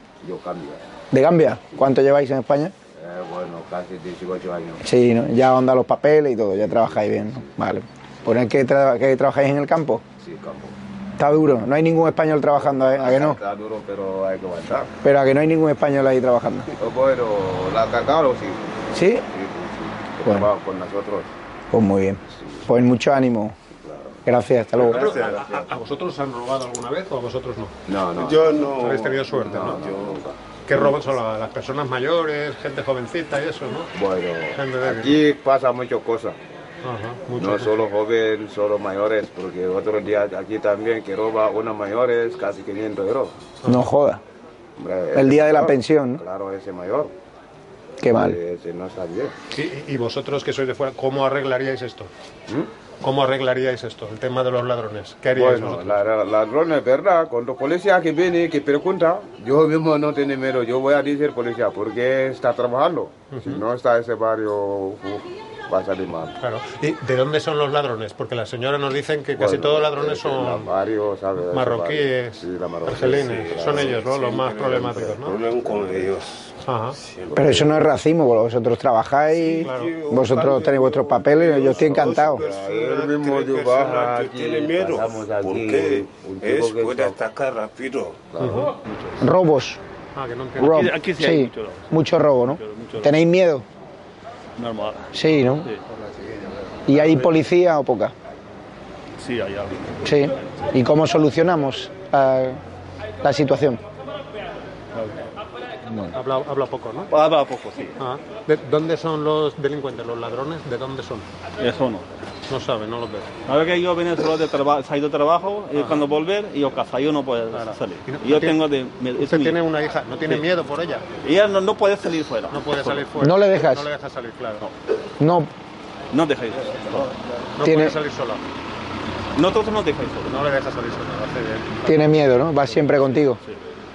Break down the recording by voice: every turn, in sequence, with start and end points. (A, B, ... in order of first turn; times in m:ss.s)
0:00.2-0:00.8 A
0:01.1-0:02.7 B
0:03.0-0:04.8 A
0:04.8-0:10.0 B
0:06.7-0:07.5 A
0:10.2-0:10.8 A
0:11.2-0:13.4 B
0:12.6-0:14.9 A
0:15.0-0:16.7 B
0:16.8-0:18.6 A
0:18.9-0:19.2 B
0:19.3-0:21.3 A
0:21.7-0:23.5 B
0:23.8-0:24.2 A
0:24.2-0:25.2 B
0:24.8-0:25.7 A
0:24.8-0:27.7 C
0:27.9-0:30.9 A
0:28.2-0:30.2 D
0:28.8-0:29.8 C
0:30.7-0:33.9 C
0:33.9-0:36.4 A
0:34.5-0:35.2 C
0:36.8-0:37.7 C
0:37.4-0:43.3 A
0:43.6-0:44.2 B
0:44.8-0:47.1 A
0:45.1-0:46.2 B
0:48.0-0:48.4 B
0:48.1-0:49.3 A
0:49.5-0:52.1 C
0:53.0-0:56.0 C
0:55.3-1:06.3 A
1:03.3-1:03.6 C
1:06.4-1:10.7 C
1:09.4-1:16.1 A
1:11.5-1:15.3 C
1:13.2-1:16.5 D
1:16.6-1:17.0 C
1:17.0-1:17.7 D
1:17.3-1:17.6 A
1:17.3-1:22.4 B
1:19.4-1:27.2 A
1:19.5-1:28.3 D
1:28.3-1:28.7 A
1:28.4-1:28.7 C
1:28.8-1:29.2 E
1:29.2-1:29.8 B
1:30.1-1:30.9 C
1:30.6-1:33.6 B
1:30.6-1:31.9 E
1:32.5-1:33.1 E
1:34.6-1:35.8 E
1:35.1-1:35.7 B
1:36.9-1:38.1 B
1:36.9-1:37.3 E
1:39.2-1:40.1 E
1:40.0-1:42.6 B
1:43.2-1:43.8 B
1:45.8-1:46.1 B
1:46.1-1:47.1 C
1:47.1-1:48.0 E
1:48.0-1:51.2 C
1:51.6-1:52.1 E
1:52.5-1:53.4 C
1:53.5-1:59.6 E
1:55.7-1:56.0 C
1:57.5-1:58.6 C
1:59.2-2:01.0 C
2:01.2-2:03.1 E
2:02.5-2:04.6 C
2:03.2-2:03.9 B
2:05.2-2:05.5 B
2:06.1-2:07.1 E
2:07.6-2:08.4 C
2:07.6-2:08.0 B
2:09.4-2:10.3 E
2:10.2-2:11.8 C
2:11.8-2:13.4 B